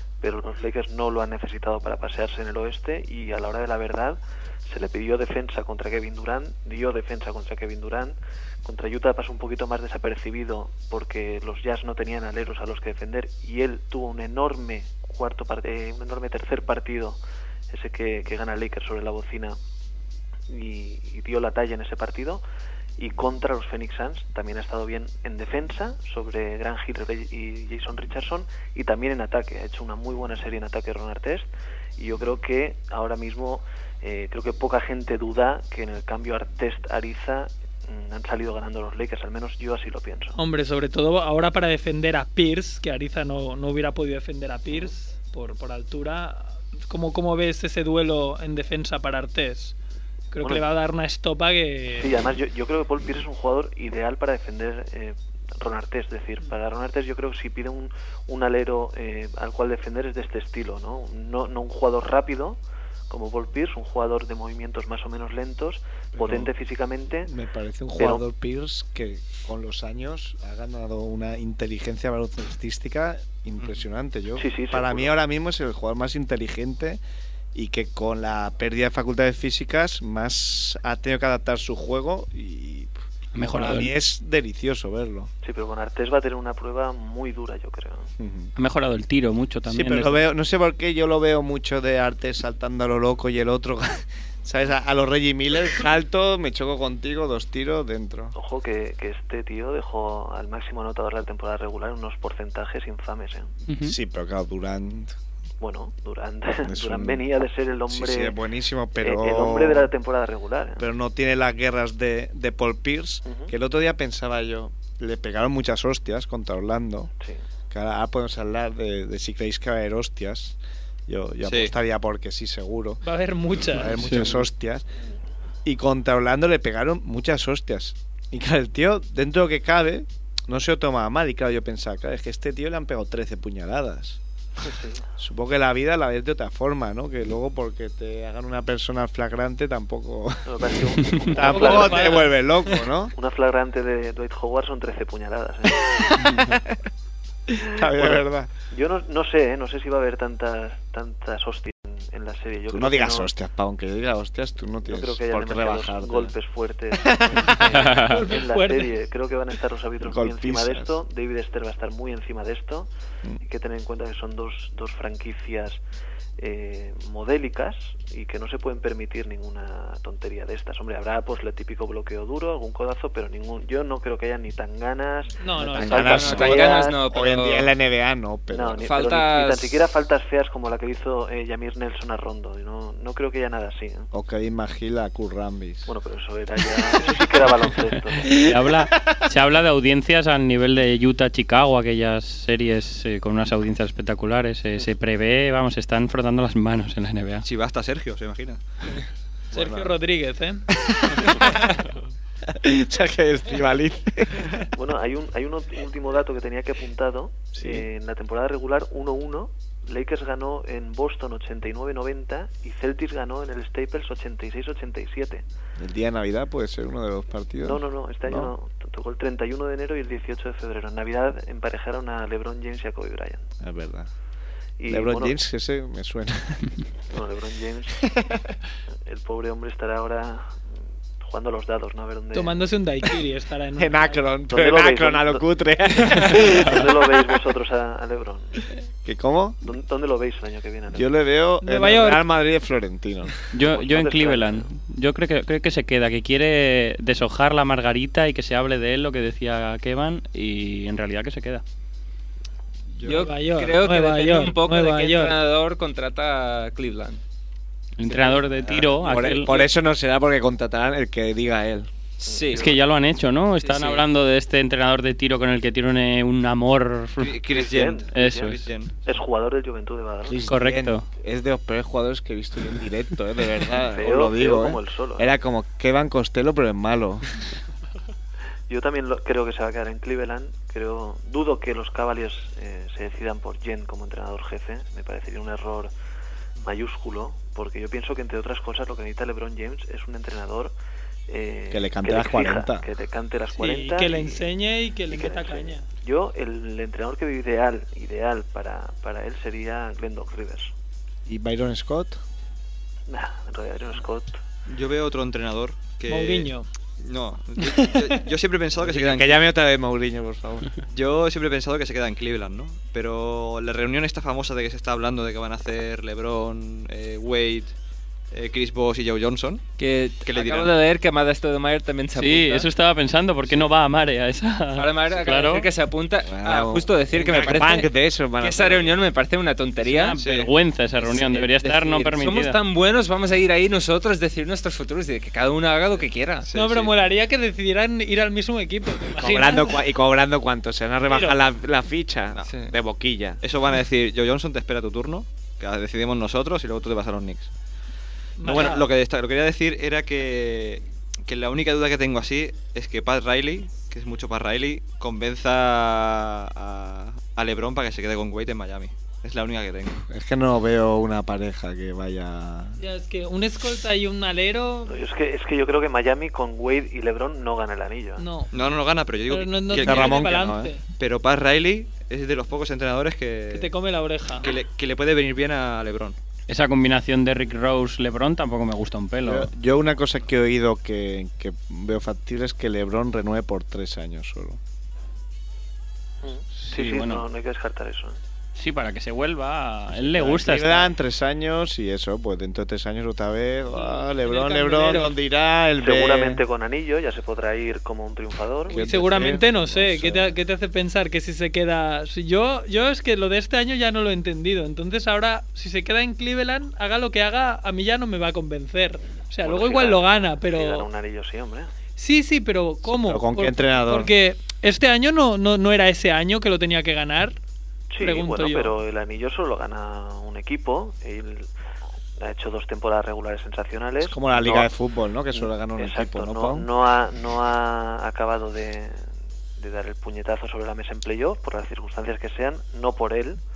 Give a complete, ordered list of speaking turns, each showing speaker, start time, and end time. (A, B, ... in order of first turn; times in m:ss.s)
0:00.2-0:17.2 A
0:17.7-0:19.6 A
0:20.5-0:22.4 A
0:23.0-0:31.5 A
0:32.0-0:40.4 A
0:40.4-0:49.8 B
0:50.3-0:52.1 B
0:52.0-1:02.6 A
1:03.1-1:07.3 A
1:06.1-1:06.5 C
1:07.2-1:17.0 C
1:08.0-1:08.2 A
1:14.4-1:15.1 A
1:17.6-1:22.9 C
1:23.3-1:23.9 D
1:23.5-1:25.3 C
1:25.4-1:28.1 A
1:28.2-1:28.5 C
1:28.6-1:30.2 D
1:29.7-1:38.3 C
1:38.4-1:43.5 A
1:43.7-1:44.0 D
1:43.8-1:45.2 C
1:45.6-1:48.4 A
1:46.6-1:47.3 C
1:47.9-1:49.9 C
1:49.0-1:50.8 A
1:50.8-1:57.1 C
1:53.3-1:53.5 A
1:57.7-2:03.0 C
2:01.4-2:01.7 E
2:03.0-2:04.0 B
2:03.6-2:04.9 C
2:04.0-2:04.4 D
2:05.6-2:14.2 C
2:14.6-2:15.0 A
2:15.2-2:23.1 C
2:20.5-2:22.2 A
2:21.4-2:22.3 B
2:23.2-2:26.3 A
2:26.3-2:26.6 C
2:27.6-2:28.5 C
2:28.0-2:33.3 A
2:32.7-2:36.4 C
2:34.8-2:42.9 A
2:37.0-2:37.7 C
2:37.8-2:38.3 D
2:37.9-2:38.9 B
2:40.0-2:41.0 C
2:43.4-2:45.8 A
2:46.4-2:57.0 A
2:55.4-2:56.5 B
2:55.7-2:58.8 C
2:56.0-2:57.7 F
2:58.5-3:04.1 A
2:58.8-2:59.8 F
3:04.1-3:05.9 C
3:05.9-3:08.4 A
3:08.3-3:17.4 D
3:17.4-3:18.6 E
3:19.5-3:20.0 C
3:19.5-3:20.6 B
3:21.0-3:21.7 C
3:22.5-3:24.6 C
3:24.7-3:35.4 A
3:27.5-3:27.9 C
3:35.8-3:38.5 C
3:37.6-3:43.4 A
3:43.6-3:44.1 C
3:44.8-3:45.4 A
3:44.9-3:46.7 C
3:47.1-3:48.0 A
3:49.1-3:50.6 A
3:51.2-3:52.6 A
3:52.3-3:54.2 B
3:53.8-3:57.0 C
3:54.5-3:55.4 A
3:56.3-3:58.6 A
3:59.0-3:59.7 C
3:59.6-4:01.1 A
4:00.9-4:03.4 C
4:01.6-4:02.2 B
4:03.5-4:11.6 D
4:03.6-4:04.7 A
4:13.0-4:17.2 F
4:13.1-4:15.3 B
4:18.0-4:19.6 D
4:18.6-4:21.9 C
4:22.3-4:22.8 F
4:22.3-4:22.8 A
4:22.5-4:27.4 D
4:23.6-4:24.1 F
4:27.2-4:28.9 E
4:27.5-4:28.5 A
4:28.1-4:28.7 D
4:29.1-4:30.4 A
4:30.3-4:37.3 C
4:30.4-4:31.1 D
4:33.9-4:35.3 A
4:38.7-4:45.9 A
4:46.6-4:50.7 A
4:51.3-4:54.5 A
4:51.7-4:52.9 C
4:53.5-4:55.9 B
4:55.1-5:00.7 A
5:01.3-5:02.2 C
5:03.1-5:04.4 A
5:04.7-5:09.4 E
5:06.1-5:06.7 B
5:07.6-5:08.2 B
5:08.8-5:10.7 C
5:10.9-5:17.7 E
5:18.3-5:19.6 E
5:19.8-5:22.7 F
5:20.2-5:20.7 E
5:22.2-5:25.7 D
5:24.8-5:30.2 F
5:26.3-5:29.0 C
5:29.8-5:32.6 D
5:30.2-5:30.5 E
5:31.0-5:36.5 F
5:36.4-5:37.0 E
5:36.5-5:39.8 B
5:39.2-5:43.4 C
5:41.1-5:41.4 B
5:42.3-5:42.6 E
5:43.4-5:47.5 E
5:48.4-5:48.9 B
5:48.4-6:00.0 E
6:00.1-6:02.8 C
6:02.8-6:05.0 B
6:04.9-6:08.3 A
6:08.2-6:08.5 B
6:08.5-6:13.7 E
6:09.3-6:10.8 B
6:09.7-6:10.7 C
6:13.5-6:14.5 B
6:14.4-6:16.2 E
6:16.5-6:19.5 D
6:19.2-6:24.6 C
6:26.2-6:28.2 A
6:26.6-6:27.2 D
6:28.6-6:30.9 D
6:29.9-6:36.4 C
6:33.7-6:35.1 B
6:35.8-6:38.9 A
6:38.7-6:40.4 C
6:38.7-6:50.9 B
6:49.4-6:51.7 A
6:52.0-6:57.4 B
6:52.8-6:54.1 C
6:57.9-7:01.5 A
6:58.0-6:58.8 B
7:02.2-7:04.7 A
7:04.0-7:06.7 C
7:05.3-7:09.0 A
7:09.6-7:13.4 A